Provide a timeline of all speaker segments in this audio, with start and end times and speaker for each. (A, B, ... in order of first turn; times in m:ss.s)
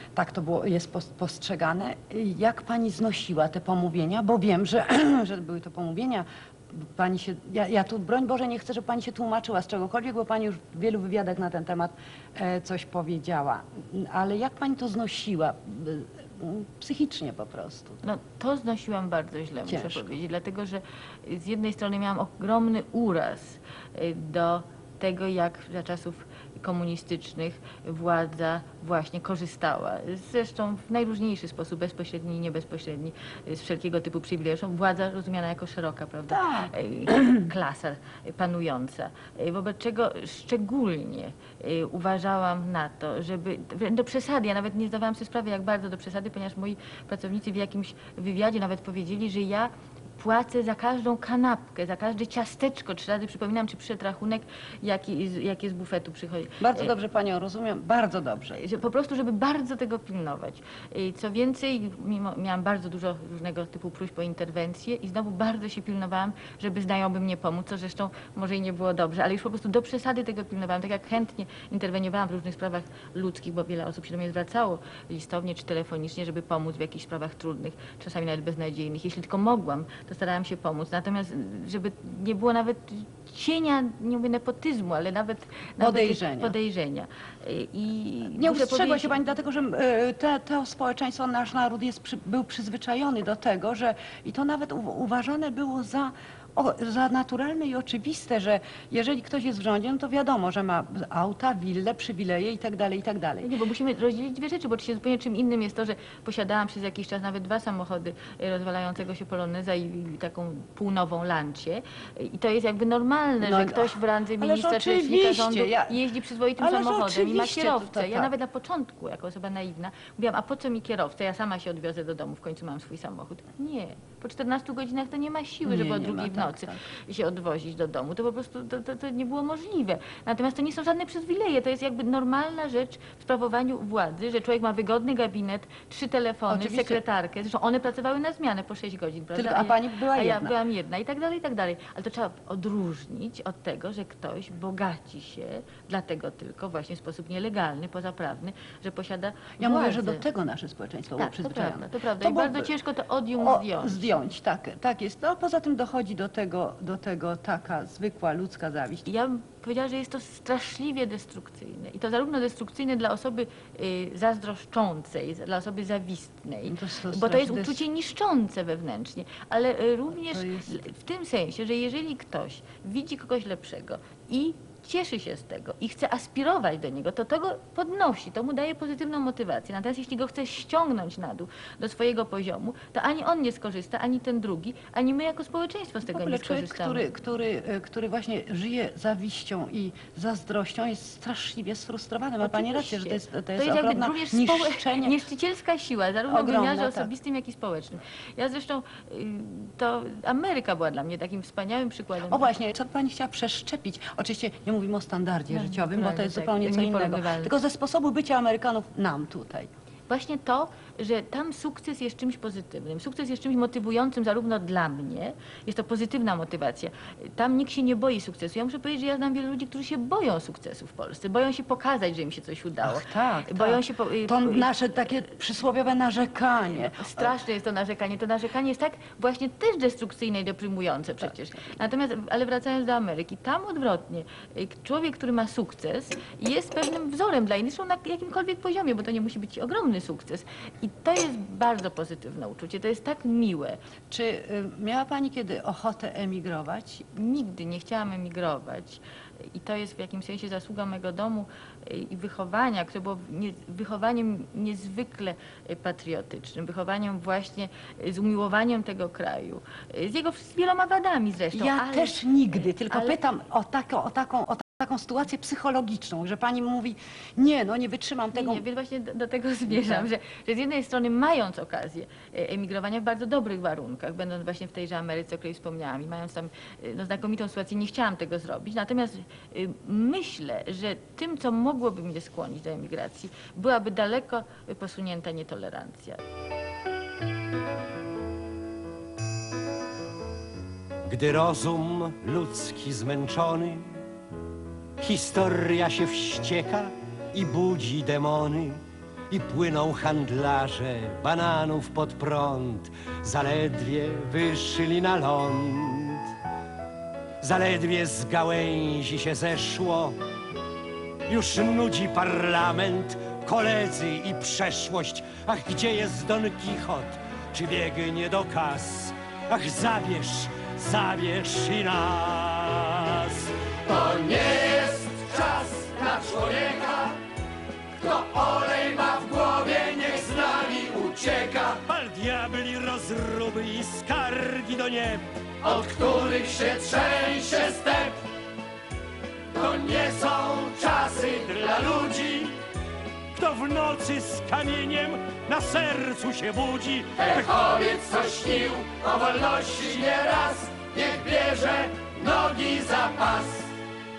0:00.2-0:18.0 A
0:18.0-0:56.9 B
0:19.7-0:20.2 A
0:36.3-0:36.7 A
0:56.6-0:58.6 A
0:58.6-1:29.2 B
1:25.8-1:26.6 A
1:28.4-1:43.5 A
1:43.4-2:30.2 B
1:53.4-1:56.0 A
1:56.6-1:58.3 A
2:05.6-2:06.8 A
2:16.5-2:17.0 A
2:19.4-2:20.6 A
2:29.6-2:32.7 A
2:31.2-2:34.1 B
2:33.4-2:39.1 A
2:39.1-3:07.1 B
2:46.6-2:47.8 A
2:50.1-2:50.8 A
3:06.1-3:15.2 A
3:12.4-3:22.5 B
3:16.3-3:17.1 A
3:22.3-3:29.7 A
3:25.5-3:27.6 B
3:30.1-3:44.7 B
3:42.8-3:47.3 A
3:46.7-4:03.8 B
4:04.1-4:07.1 A
4:07.1-4:23.2 B
4:21.5-4:28.6 A
4:28.4-4:46.2 B
4:29.7-4:30.1 A
4:51.1-4:54.0 C
4:55.0-5:06.3 C
5:07.4-5:10.2 C
5:11.3-5:23.5 C
5:23.9-5:27.2 D
5:28.0-5:31.8 D
5:31.9-5:35.3 C
5:35.6-5:38.2 D
5:39.5-5:42.6 D
5:43.3-5:47.5 C
5:47.2-5:53.7 D